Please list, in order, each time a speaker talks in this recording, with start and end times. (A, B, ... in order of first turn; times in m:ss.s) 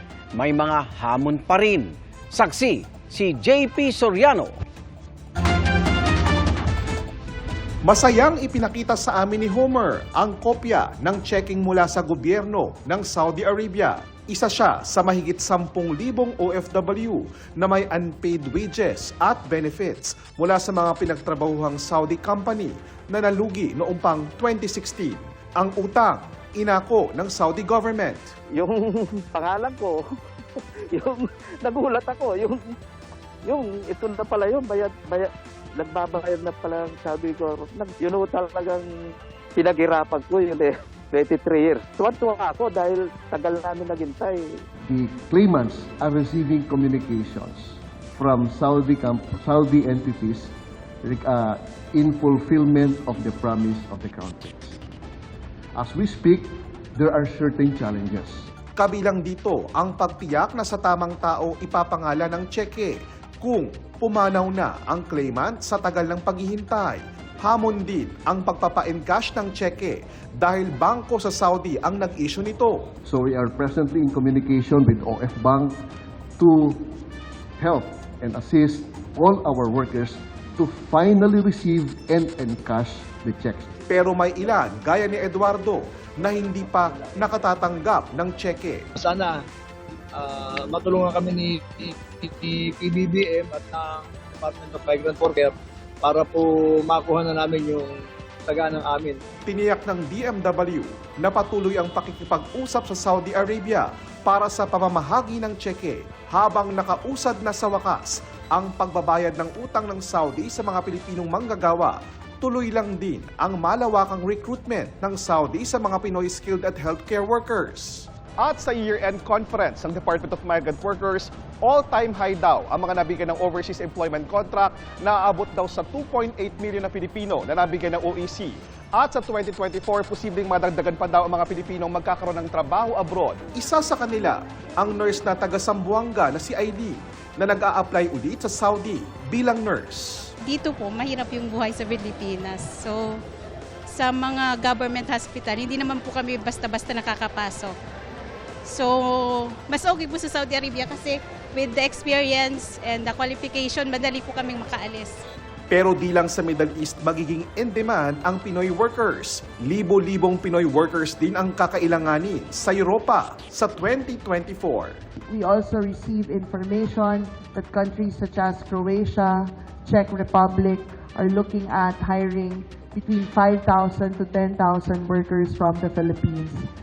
0:00.4-0:04.5 A
0:07.8-0:28.2 B
0:28.6-0:30.0 C
0:30.9-0:32.6 C
0:33.4-0:38.9 C
0:39.6-0:44.4 C
0:44.9-0:54.8 D
0:55.8-0:58.5 D
0:58.8-1:12.9 B
1:13.0-1:15.8 D
1:16.4-1:16.9 D
1:17.6-1:23.7 D
1:23.9-1:28.8 B
1:29.0-1:29.4 E
1:30.2-1:38.0 E
1:38.5-1:39.2 E
1:39.5-2:20.3 B
2:20.5-2:23.2 F
2:23.9-2:27.8 F
2:28.7-2:35.3 F
2:35.7-2:45.0 B
2:45.3-2:56.7 G